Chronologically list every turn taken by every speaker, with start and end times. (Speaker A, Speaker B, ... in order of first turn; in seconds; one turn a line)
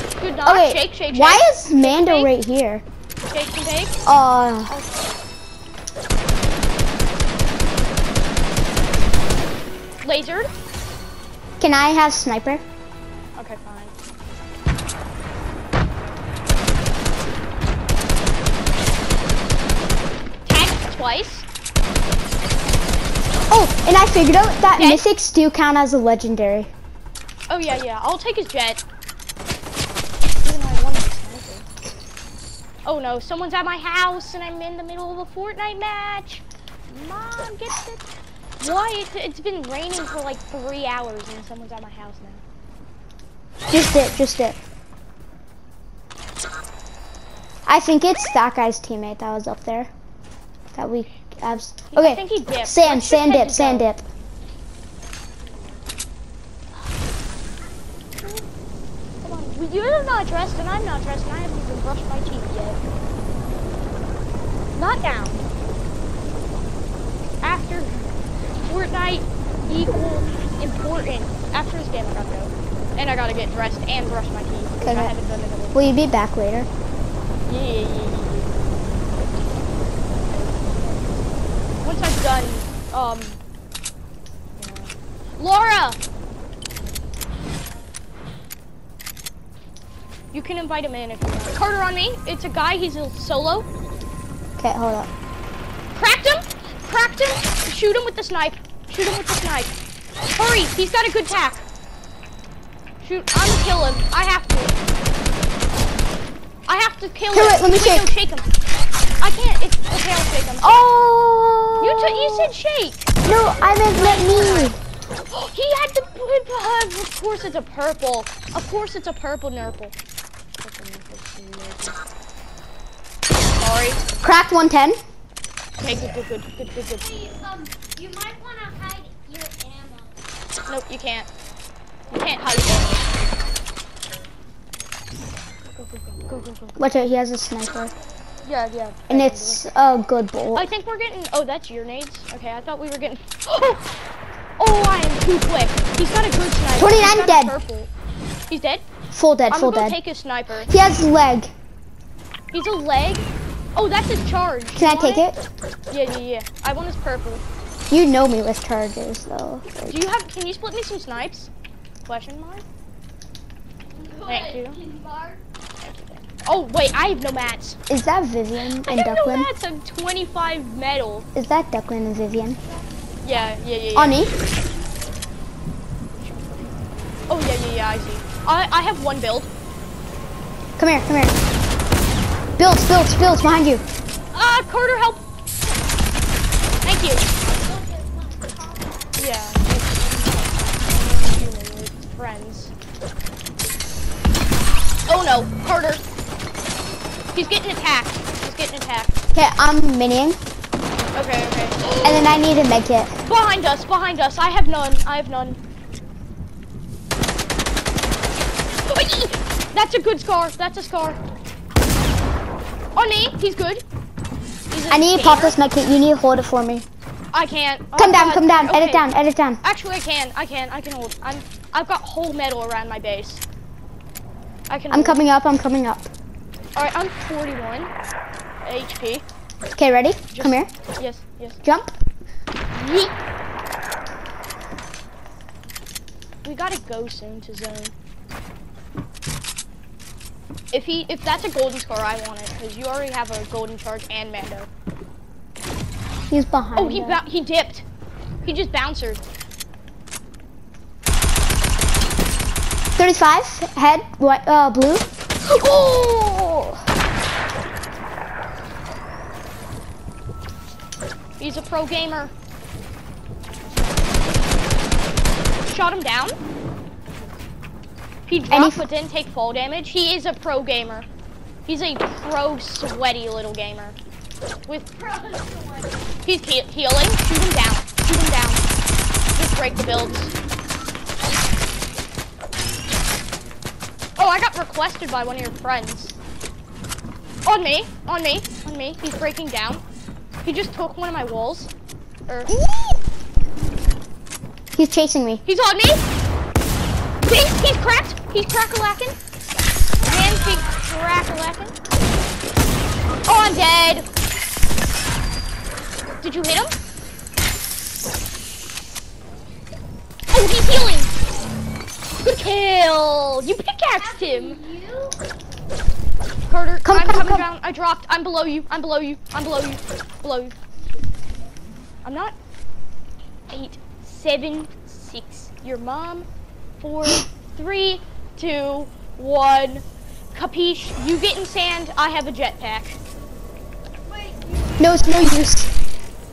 Speaker A: 0.2-2.4
Speaker B: 0.4-2.8
Speaker A: 3.3-4.0
Speaker B: 4.0-4.7
Speaker A: 4.7-5.1
Speaker A: 10.0-10.5
Speaker B: 11.6-12.6
Speaker A: 13.3-13.9
Speaker A: 20.4-21.5
Speaker B: 23.5-26.7
Speaker A: 24.7-25.0
Speaker A: 27.5-28.8
Speaker A: 30.4-31.6
Speaker A: 32.8-38.1
Speaker A: 38.6-42.4
Speaker B: 43.7-44.6
Speaker B: 47.7-49.9
Speaker B: 50.7-54.0
Speaker A: 51.9-53.9
Speaker A: 58.2-58.5
Speaker A: 59.2-62.8
Speaker A: 64.7-65.4
Speaker A: 67.4-75.8
Speaker B: 74.8-75.1
Speaker B: 75.7-76.7
Speaker A: 77.5-78.5
Speaker A: 79.1-81.2
Speaker A: 81.8-83.4
Speaker A: 84.6-86.0
Speaker A: 90.3-93.7
Speaker B: 94.6-95.1
Speaker A: 95.9-99.7
Speaker A: 100.3-101.6
Speaker A: 103.0-104.8
Speaker A: 106.7-108.5
Speaker B: 107.3-108.1
Speaker A: 109.2-110.8
Speaker B: 110.7-112.5
Speaker A: 111.8-114.8
Speaker B: 113.2-114.8
Speaker A: 115.3-119.9
Speaker A: 120.6-122.0
Speaker A: 123.5-124.0
Speaker B: 124.2-125.0
Speaker A: 125.8-127.1
Speaker C: 127.1-130.1
Speaker A: 130.7-131.3
Speaker A: 132.1-133.3
Speaker A: 135.8-136.8
Speaker B: 136.8-137.9
Speaker A: 138.4-139.7
Speaker B: 139.1-140.7
Speaker A: 140.5-143.8
Speaker A: 144.6-147.9
Speaker B: 146.8-147.5
Speaker A: 148.5-148.8
Speaker B: 149.1-150.0
Speaker A: 149.5-150.7
Speaker B: 150.7-151.5
Speaker A: 152.5-155.2
Speaker B: 154.7-155.4
Speaker A: 155.9-157.4
Speaker B: 157.9-160.1
Speaker A: 159.9-161.5
Speaker A: 162.1-162.6
Speaker C: 164.0-165.4
Speaker A: 164.2-164.8
Speaker A: 165.8-167.8
Speaker B: 167.9-169.5
Speaker A: 168.6-171.3
Speaker B: 171.3-172.6
Speaker A: 173.2-174.2
Speaker B: 173.9-174.3
Speaker A: 176.2-176.7
Speaker A: 177.3-179.5
Speaker B: 180.8-181.3
Speaker B: 182.6-183.8
Speaker A: 184.3-185.2
Speaker A: 186.8-187.2
Speaker C: 187.5-189.2
Speaker A: 189.2-192.7
Speaker A: 195.1-196.0
Speaker A: 197.3-199.1
Speaker B: 199.3-200.4
Speaker A: 201.1-202.4
Speaker B: 202.0-203.1
Speaker A: 203.2-205.6
Speaker A: 208.8-211.2
Speaker A: 212.9-213.8
Speaker A: 214.7-215.6
Speaker B: 214.9-216.8
Speaker A: 217.3-219.1
Speaker B: 217.9-219.6
Speaker A: 219.6-223.4
Speaker A: 224.7-225.2
Speaker B: 224.9-226.1
Speaker A: 226.7-227.9
Speaker A: 228.6-229.2
Speaker B: 229.8-230.7
Speaker A: 230.3-231.6
Speaker B: 231.6-231.9
Speaker A: 232.7-233.2
Speaker A: 236.4-237.9
Speaker A: 240.7-244.7
Speaker B: 246.3-247.2
Speaker A: 246.8-247.8
Speaker A: 248.4-249.2
Speaker B: 253.0-255.1
Speaker A: 255.4-256.8
Speaker A: 261.4-262.3
Speaker A: 265.7-266.4
Speaker A: 268.3-271.1
Speaker B: 268.5-268.9
Speaker A: 271.6-274.0
Speaker A: 274.7-274.9
Speaker C: 275.0-275.9
Speaker A: 276.2-278.6
Speaker A: 279.3-280.3
Speaker A: 284.2-286.1
Speaker A: 287.4-289.8
Speaker A: 290.4-291.7
Speaker A: 292.3-292.5
Speaker B: 294.7-295.4
Speaker A: 295.4-296.1
Speaker A: 297.2-299.1
Speaker A: 300.0-301.7
Speaker A: 303.3-304.1
Speaker A: 306.2-306.7
Speaker A: 310.3-311.1
Speaker A: 312.2-314.7
Speaker C: 314.1-315.2
Speaker A: 316.5-320.5
Speaker B: 316.8-317.4
Speaker A: 322.0-322.3
Speaker A: 323.5-326.3
Speaker A: 326.8-333.0
Speaker C: 334.1-334.9
Speaker B: 334.8-335.7